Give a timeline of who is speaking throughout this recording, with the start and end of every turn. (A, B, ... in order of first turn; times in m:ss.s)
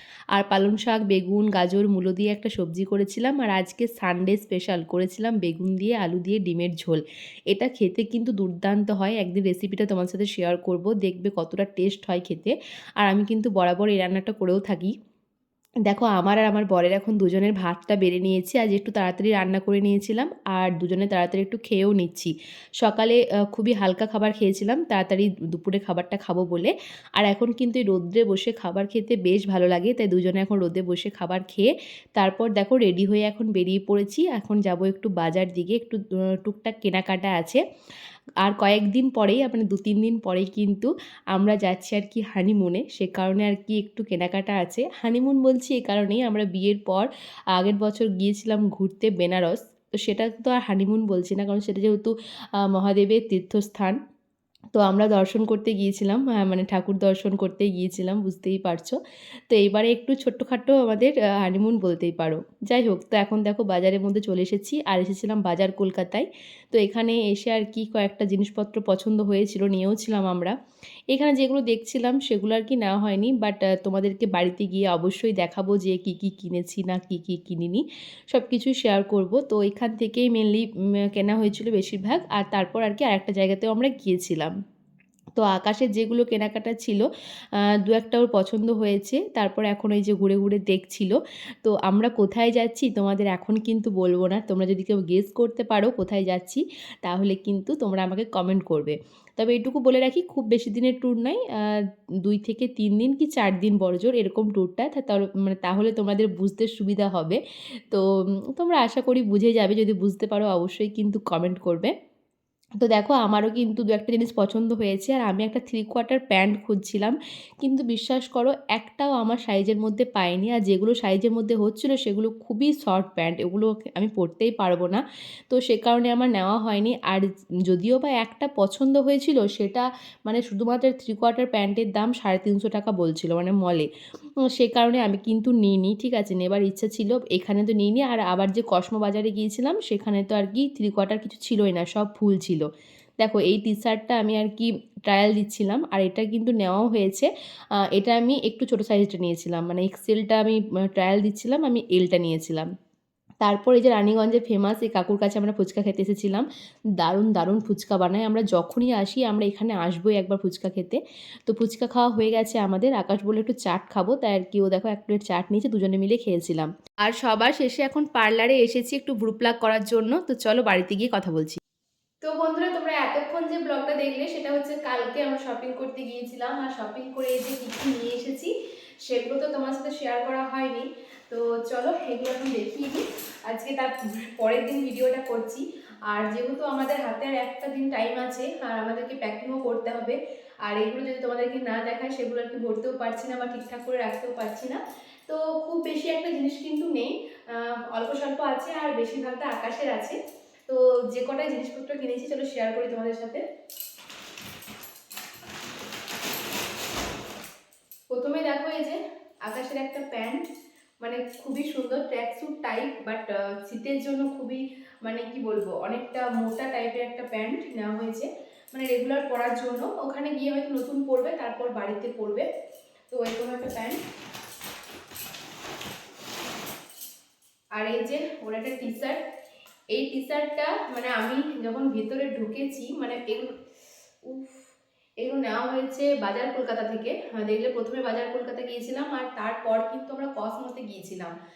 0:00.3-0:14.9 A
0:15.9-0:37.6 A
0:38.4-0:54.0 A
0:54.8-0:59.0 A
0:59.5-1:10.6 A
1:11.1-1:24.5 A
1:25.4-1:27.0 A
1:27.6-1:51.9 A
1:52.8-2:13.9 A
2:14.5-2:22.7 A
2:23.2-2:27.3 A
2:27.9-2:32.7 A
2:33.4-2:36.5 A
2:37.0-2:51.6 A
2:52.2-2:58.5 A
2:59.1-3:20.2 A
3:20.7-3:23.4 A
3:28.1-3:30.4 A
3:31.0-3:42.5 A
3:43.1-3:44.0 A
3:47.8-3:49.2 A
3:49.9-3:53.5 A
3:54.2-4:01.3 A